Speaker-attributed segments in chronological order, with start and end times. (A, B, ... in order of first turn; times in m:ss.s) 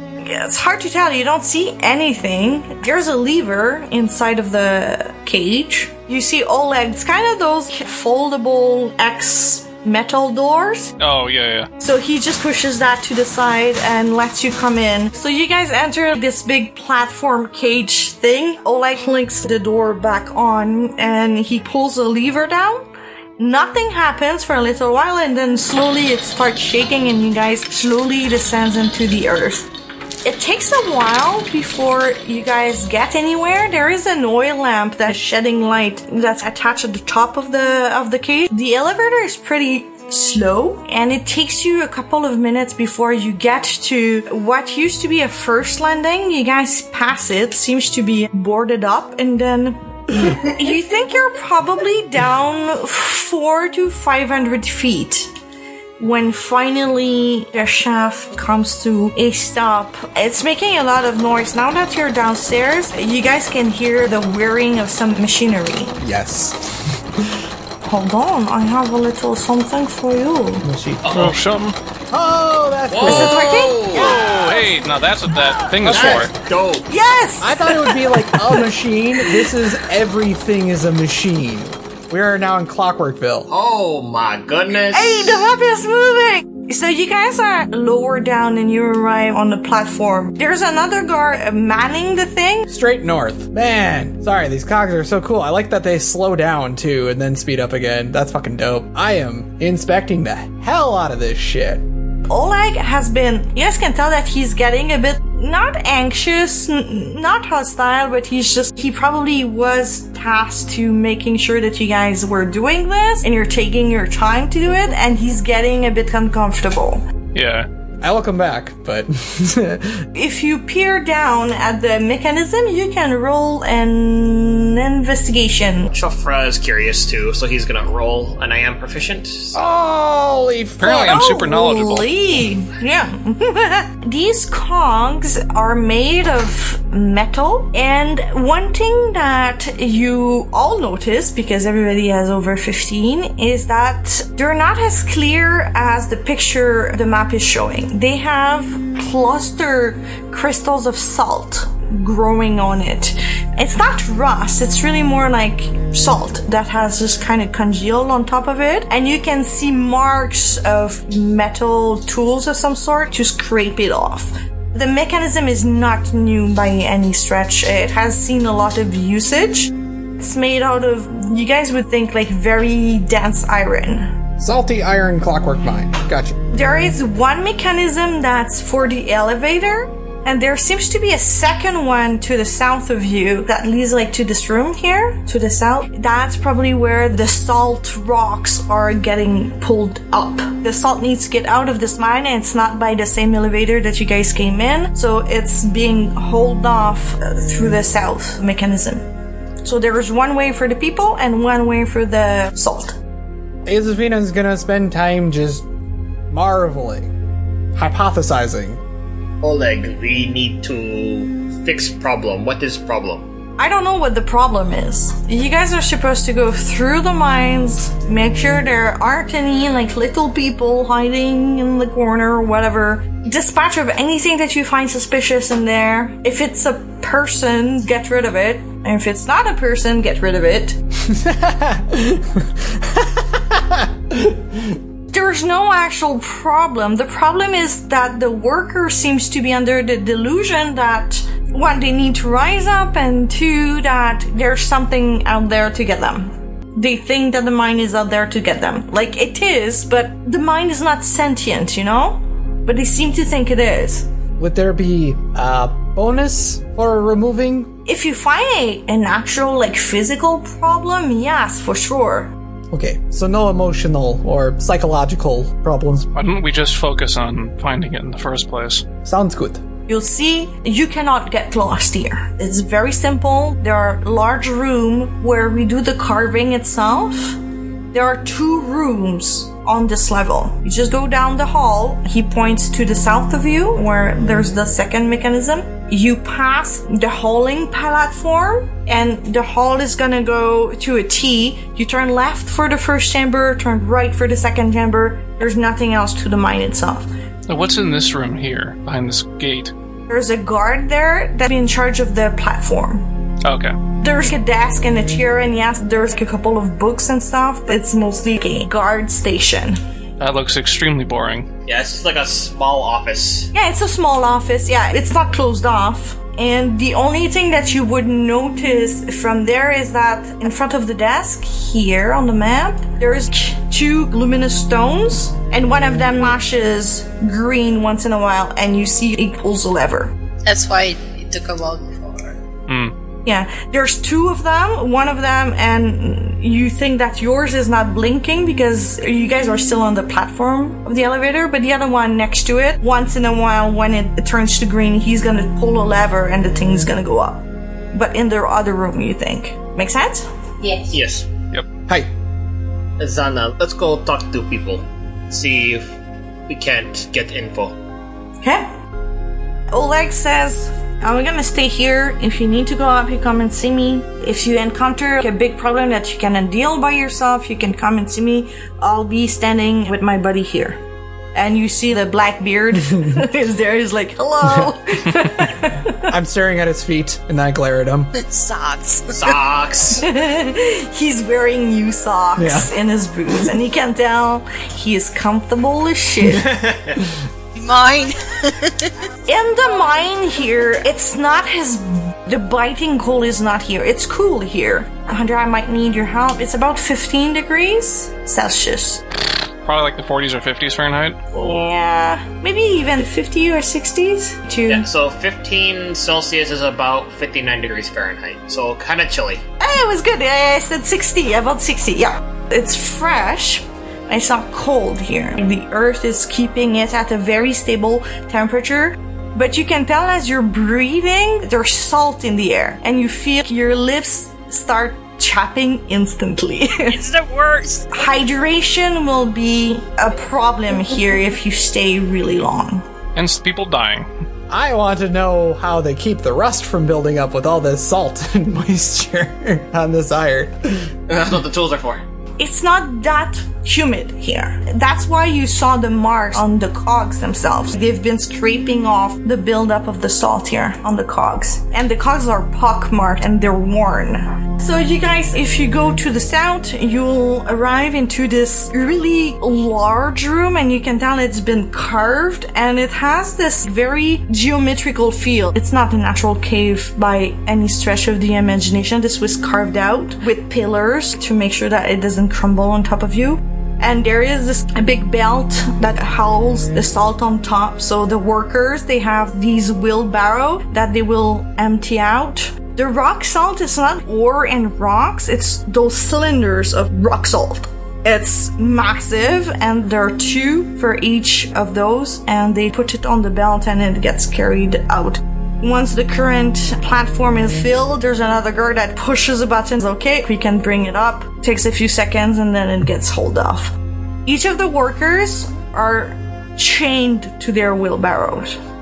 0:00.2-0:10.9 A
0:11.0-0:11.7 B
0:11.8-0:29.7 A
0:30.2-0:55.3 A
0:56.0-1:05.9 A
1:06.0-1:07.4 C
1:07.8-1:10.7 A
1:10.6-1:11.4 C
1:11.0-1:11.4 D
1:11.1-1:11.8 B
1:12.1-1:14.4 C
1:12.9-1:14.3 D
1:13.0-1:14.2 A
1:13.9-1:16.3 B
1:15.8-1:16.3 C
1:15.9-1:16.9 D
1:16.9-1:18.7 A
1:17.4-1:23.5 C
1:23.5-1:25.4 D
1:24.9-1:32.7 A
1:32.7-1:41.8 C
1:42.3-1:57.0 A
1:57.3-1:57.7 B
1:58.0-2:00.1 C
2:00.1-2:05.9 A
2:05.9-2:09.6 D
2:09.5-2:11.2 C
2:10.8-2:12.1 B
2:10.8-2:54.2 A
2:54.4-2:56.4 C
2:56.5-3:19.0 A
3:19.6-3:23.0 A
3:23.7-3:25.7 C
3:26.3-3:27.1 C
3:27.8-3:28.8 C
3:29.4-3:33.3 D
3:33.6-3:50.8 A
3:51.0-3:54.6 C
3:55.1-4:14.1 A
4:14.4-4:17.7 C
4:17.9-4:22.3 A
4:22.7-4:26.1 C
4:26.2-4:28.9 B
4:29.0-4:29.6 C
4:29.9-4:37.4 A
4:37.9-4:57.1 A
4:57.5-4:59.7 B
5:00.1-5:03.1 A
5:03.4-5:03.8 B
5:04.0-5:09.8 A
5:10.2-5:11.5 B
5:11.7-5:13.5 D
5:13.5-5:30.1 A
5:30.4-5:32.4 E
5:32.7-5:32.9 B
5:33.3-5:50.3 A
5:50.6-5:50.9 E
5:50.9-5:51.3 D
5:53.0-5:56.0 D
5:56.5-5:57.8 D
5:58.4-5:58.7 A
5:59.7-6:10.8 A
6:11.3-6:16.1 A
6:16.1-6:18.1 C
6:18.2-6:19.4 E
6:19.2-6:20.1 D
6:20.0-6:26.5 A
6:22.4-6:22.7 C
6:26.3-6:27.0 D
6:27.5-6:28.9 E
6:29.3-6:39.0 A
6:39.6-6:41.2 B
6:41.3-6:44.9 A
6:44.7-6:49.4 D
6:49.6-7:07.0 A
7:06.9-7:07.9 E
7:07.9-7:12.8 A
7:13.2-7:14.1 B
7:14.5-7:20.9 C
7:21.1-7:22.0 D
7:22.4-8:28.6 A